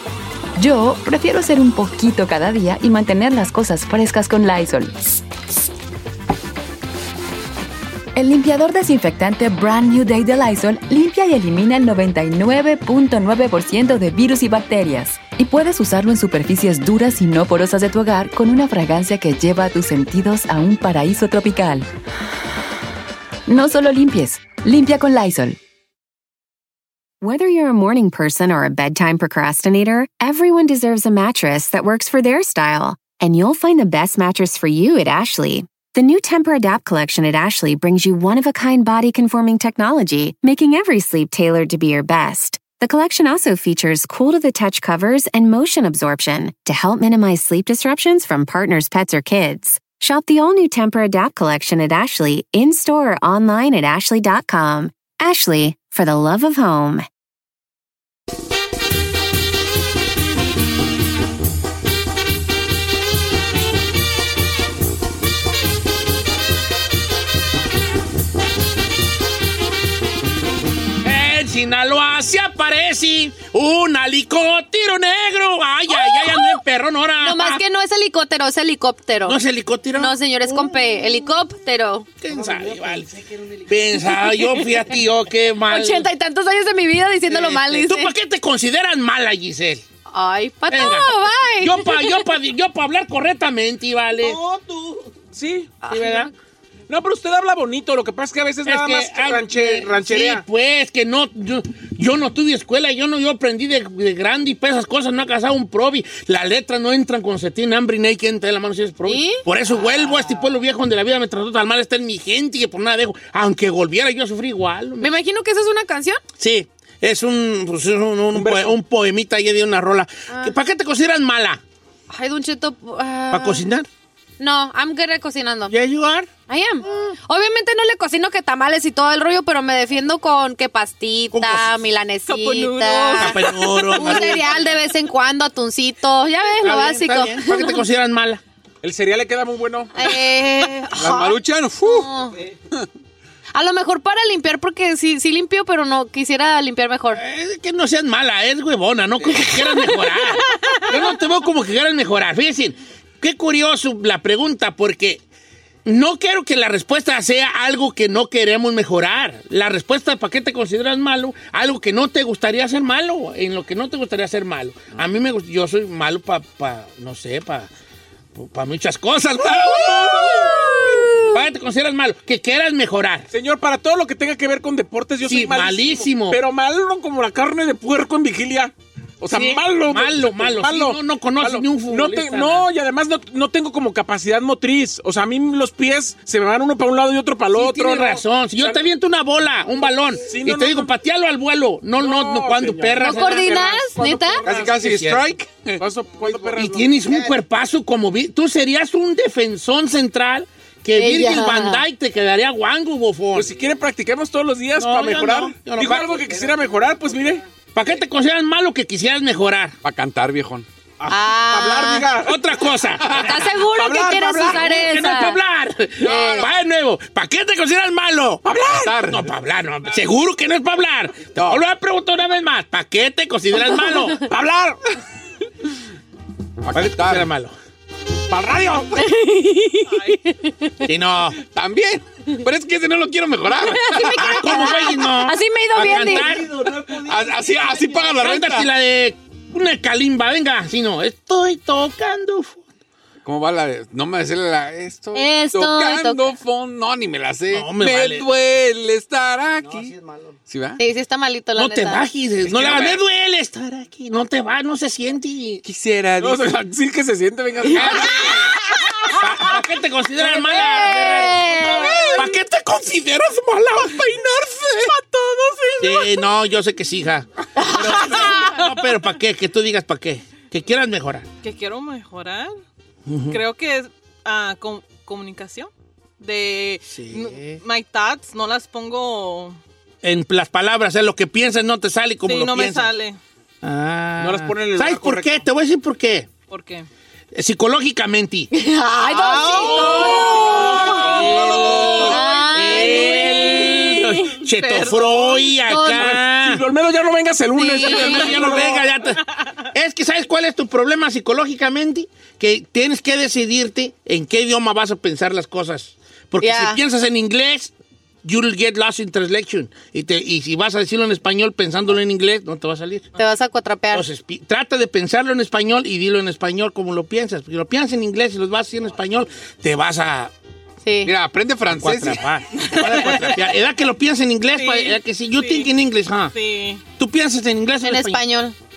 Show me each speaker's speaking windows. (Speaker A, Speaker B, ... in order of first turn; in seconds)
Speaker A: 0.6-5.2, 8.1-21.9, 23.5-25.6
Speaker B: 27.2-57.0
Speaker C: 71.0-77.6, 79.2-80.8, 82.2-86.1, 87.3-89.8, 90.7-94.4, 95.9-96.3, 98.6-115.1, 116.4-121.6, 123.3-123.9, 125.7-126.3, 131.3-131.7, 133.2-134.6, 136.6-138.4, 147.1-155.2, 155.8-167.7, 168.3-173.3, 175.3-176.4, 179.3-182.7, 187.5-195.2, 196.2-203.5, 204.8-206.4, 207.7-209.8, 212.2-213.5, 214.4-224.2, 226.7-227.5, 230.8-231.4, 234.2-236.7, 237.9-242.6, 247.5-248.2, 251.6-255.6, 257.7-264.4, 265.8-271.3, 273.1-273.4, 276.9-277.6, 280.0-282.9, 283.6-286.3, 287.3-288.5, 290.4-296.6, 297.7-299.2, 299.7-307.7, 308.2-313.1, 313.9-320.3, 321.7-326.3, 327.0-328.2
Speaker D: 75.9-76.6, 77.2-79.4, 80.0-82.1, 84.1-84.6, 85.7-88.1, 90.1-92.2, 95.9-96.3, 109.1-109.4, 115.0-116.2, 122.1-123.7, 124.4-125.7, 126.5-137.8, 140.0-142.4, 143.6-147.2, 193.0-194.4, 200.9-201.8, 211.1-212.1, 213.1-215.4, 216.0-216.5, 229.0-230.7, 233.6-236.6, 245.1-246.3, 250.8-252.0, 260.2-262.1, 267.6-268.3, 288.5-294.4, 295.7-296.2, 297.6-298.7, 306.4-306.8, 313.2-314.1, 320.8-321.1, 327.8-328.6
Speaker E: 95.3-95.8, 96.9-100.5, 118.3-118.8, 138.8-140.2, 173.3-188.8, 190.2-190.9, 192.0-193.9, 195.8-197.2, 203.3-207.4, 211.0-212.4, 213.7-214.7, 218.4-219.0, 224.2-224.8, 228.3-229.0, 252.6-252.9, 256.2-258.5, 264.0-264.9, 284.2-285.4, 289.6-292.4, 295.9-298.8
Speaker F: 132.2-134.4, 264.9-266.1, 271.4-272.6, 273.3-279.6, 282.2-283.2, 286.5-286.9, 289.1-290.2, 292.8-293.8, 294.5-295.4, 322.7-323.3, 324.5-325.7, 326.3-326.8
Speaker G: 141.0-142.1, 194.5-195.8, 209.8-210.7, 216.0-216.4, 218.7-219.3, 221.3-221.6, 226.6-227.3, 231.4-234.3, 236.9-238.7, 243.2-249.9, 250.5-250.8, 252.4-253.0, 255.6-256.5, 321.1-322.2